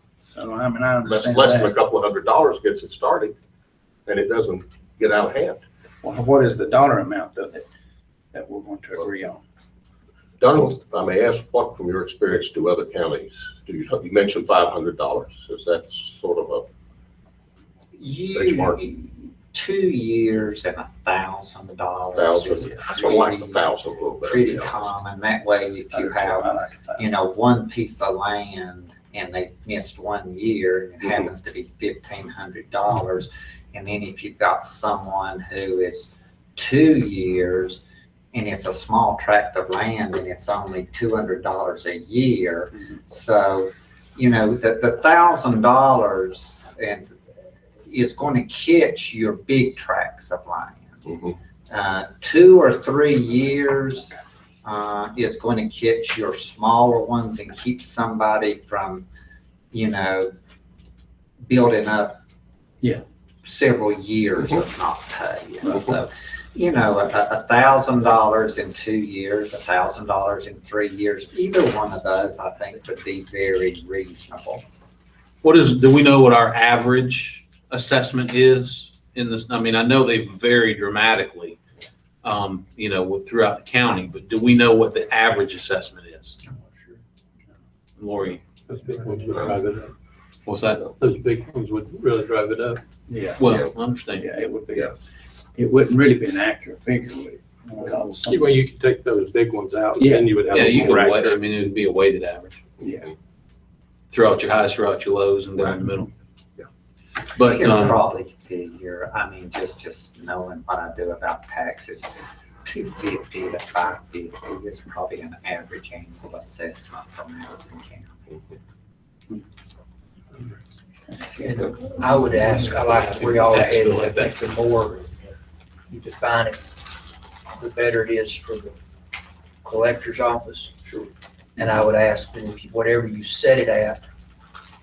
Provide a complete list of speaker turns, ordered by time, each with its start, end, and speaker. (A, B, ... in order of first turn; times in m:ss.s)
0:00.2-0:01.8 A
0:01.0-0:03.3 B
0:04.1-0:05.6 B
0:06.0-0:07.6 A
0:08.3-0:09.4 A
0:10.4-0:16.6 B
0:18.0-0:23.7 C
0:18.3-0:18.8 B
0:22.2-0:24.8 B
0:24.2-0:47.1 C
0:25.9-0:27.0 A
0:47.9-0:51.0 C
0:51.1-0:51.3 B
0:51.7-0:59.0 C
0:59.7-1:00.3 C
1:01.4-1:02.2 C
1:03.4-1:14.6 C
1:05.6-1:05.9 A
1:15.4-1:21.6 D
1:22.2-1:26.4 D
1:28.0-1:28.4 D
1:28.7-1:29.9 E
1:30.4-1:30.8 D
1:31.0-1:32.8 E
1:33.1-1:33.5 A
1:33.4-1:34.3 D
1:34.2-1:35.0 A
1:35.5-1:38.5 A
1:38.2-1:41.4 E
1:40.0-1:40.3 A
1:40.5-1:42.6 D
1:42.8-1:43.1 A
1:44.1-1:46.1 D
1:47.3-1:48.0 D
1:47.4-1:52.0 C
1:52.6-1:58.1 C
2:01.1-2:01.5 A
2:01.4-2:05.3 F
2:02.8-2:04.3 D
2:05.9-2:06.6 F
2:07.5-2:08.8 F
2:09.6-2:10.8 F
2:11.6-2:14.0 F